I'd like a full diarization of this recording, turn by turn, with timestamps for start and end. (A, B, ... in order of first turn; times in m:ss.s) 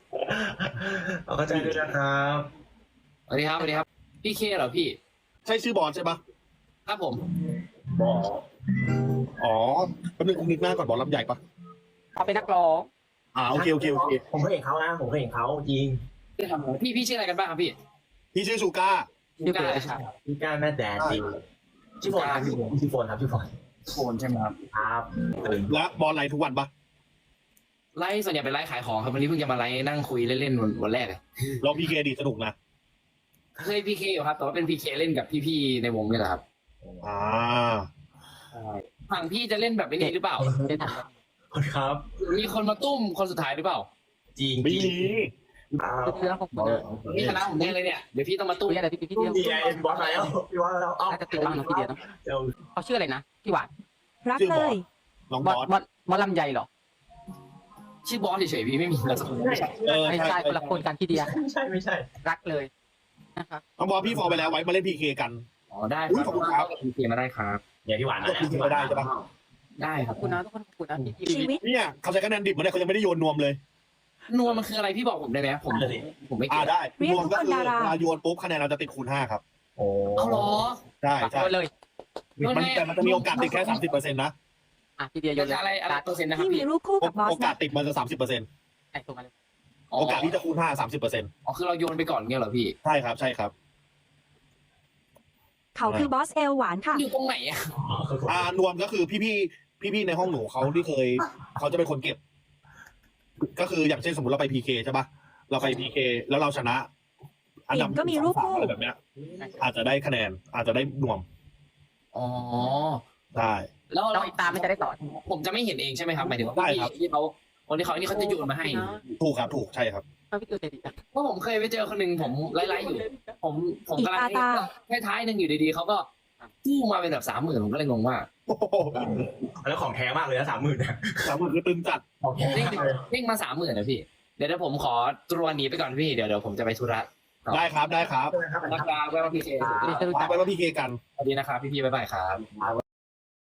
0:00.2-0:02.5 A
0:01.5-0:01.9 B
0:03.3-0:05.0 C
0:05.4-0:06.2 B
0:06.8-0:07.2 C
0:09.4-0:11.4 B
0:12.2-0:12.9 D
0:13.3-0:14.2 B
0:13.5-0:16.0 A
0:16.4-0:17.7 C
0:18.3-0:19.1 B
0:19.4-0:20.1 C
0:19.4-0:20.0 D
0:20.1-0:21.4 A
0:22.0-0:23.5 A
0:22.1-0:22.7 C
0:23.9-0:24.6 C
0:24.7-0:25.7 A
0:25.6-0:26.7 B
0:27.9-0:31.2 C
0:31.6-0:32.5 B
0:33.6-0:36.4 C
0:36.8-0:37.2 A
0:37.0-0:37.9 B
0:38.5-0:40.5 C
0:40.0-0:41.1 D
0:40.4-0:41.0 A
0:41.5-0:42.0 A
0:42.2-0:43.9 C
0:44.3-0:45.1 A
0:44.6-0:45.3 B
0:45.7-0:47.6 A
0:46.0-0:46.8 D
0:46.5-0:48.8 C
0:48.6-0:50.2 D
0:49.1-0:52.6 A
0:49.9-0:50.3 C
0:51.1-0:52.0 D
0:52.8-0:53.7 D
0:54.2-0:54.8 E
0:54.3-0:54.8 B
0:55.3-0:55.7 B
0:55.4-0:56.7 D
0:58.0-0:59.7 C
0:59.1-1:00.1 A
0:59.8-1:00.5 B
1:00.0-1:01.3 D
1:00.3-1:00.8 C
1:01.1-1:02.1 A
1:02.2-1:02.7 D
1:03.4-1:03.6 D
1:03.8-1:05.4 B
1:05.7-1:07.6 C
1:06.1-1:06.7 B
1:07.8-1:09.2 A
1:08.2-1:09.1 B
1:09.8-1:10.4 C
1:10.0-1:11.6 D
1:11.2-1:11.6 E
1:11.6-1:13.6 B
1:14.3-1:16.7 C
1:15.7-1:16.0 A
1:16.5-1:19.4 B
1:17.0-1:18.0 E
1:19.8-1:20.6 A
1:20.1-1:20.8 C
1:21.0-1:21.5 B
1:21.2-1:21.7 D
1:22.4-1:23.8 C
1:22.4-1:24.3 B
1:25.0-1:26.0 D
1:25.4-1:26.7 C
1:26.3-1:27.6 E
1:27.0-1:28.4 B
1:28.9-1:29.3 D
1:29.9-1:30.3 C
1:30.0-1:31.3 B
1:31.4-1:32.7 C
1:32.8-1:33.5 B
1:35.7-1:37.0 E
1:36.9-1:37.7 C
1:37.8-1:38.5 A
1:38.3-1:42.2 B
1:43.5-1:46.9 B
1:47.7-1:49.0 B
1:47.7-1:48.7 E
1:49.6-1:51.2 B
1:52.1-1:53.0 C
1:53.3-1:53.7 B
1:53.9-1:59.2 C
1:54.1-1:55.0 D
1:56.5-1:56.9 B
1:57.9-1:59.0 D
1:59.2-2:00.0 B
2:00.3-2:01.0 D
2:01.1-2:06.1 C
2:02.5-2:03.3 D
2:03.9-2:04.7 E
2:06.6-2:08.3 C
2:08.5-2:09.2 B
2:09.0-2:11.4 A
2:11.2-2:12.0 B
2:12.2-2:13.0 A
2:12.5-2:17.6 C
2:17.5-2:18.4 B
2:18.1-2:20.1 A
2:18.6-2:20.0 C
2:19.8-2:20.4 D
2:20.0-2:21.0 B
2:21.2-2:22.5 C